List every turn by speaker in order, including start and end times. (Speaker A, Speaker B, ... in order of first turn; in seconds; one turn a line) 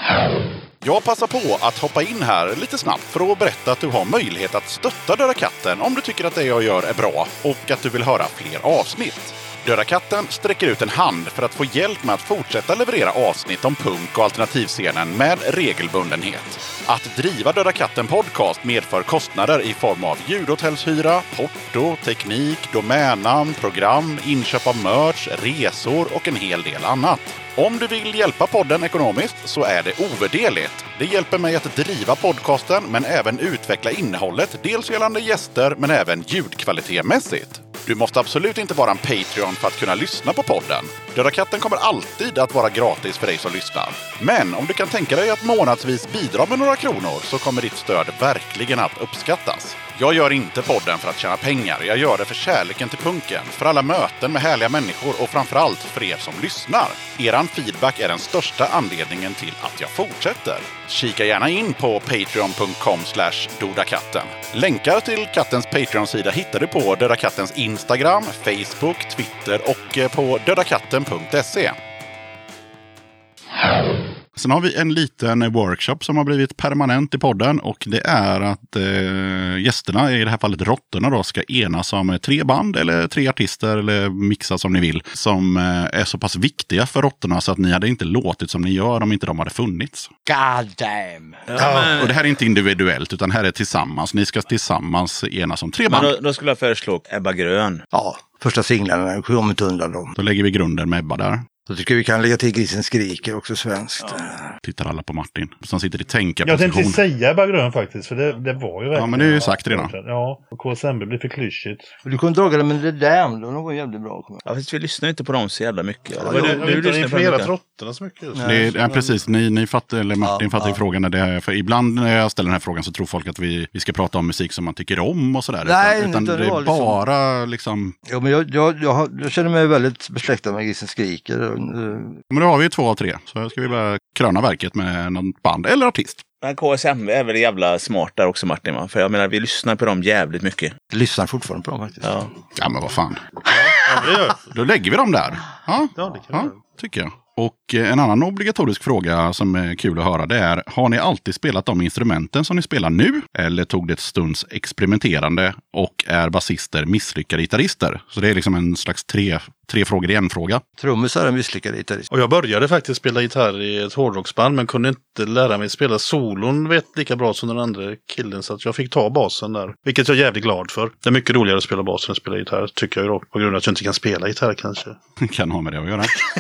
Speaker A: 0.8-71.8
Speaker A: 74.4-90.1
Speaker B: 90.3-91.5
Speaker C: 91.5-92.1
Speaker A: 91.6-96.2
Speaker D: 91.6-92.0
Speaker C: 95.9-97.8
Speaker B: 97.9-100.2
Speaker A: 100.2-101.5
Speaker B: 101.7-104.5
Speaker A: 104.6-107.0
Speaker D: 106.4-111.9
Speaker A: 108.9-110.0
Speaker B: 112.0-114.4
Speaker C: 114.5-117.5
Speaker D: 116.2-119.0
Speaker B: 116.3-116.7
Speaker B: 118.3-119.0
Speaker A: 118.5-128.0
Speaker B: 120.2-120.8
Speaker B: 125.6-127.0
Speaker B: 128.1-132.2
Speaker A: 132.3-136.2
Speaker C: 136.4-140.8
Speaker B: 140.9-142.2
Speaker C: 142.0-142.3
Speaker A: 142.6-143.3
Speaker D: 143.5-144.4
Speaker A: 144.5-160.6
Speaker D: 146.0-146.6
Speaker B: 160.8-162.1
Speaker D: 162.1-175.0
Speaker A: 175.2-176.2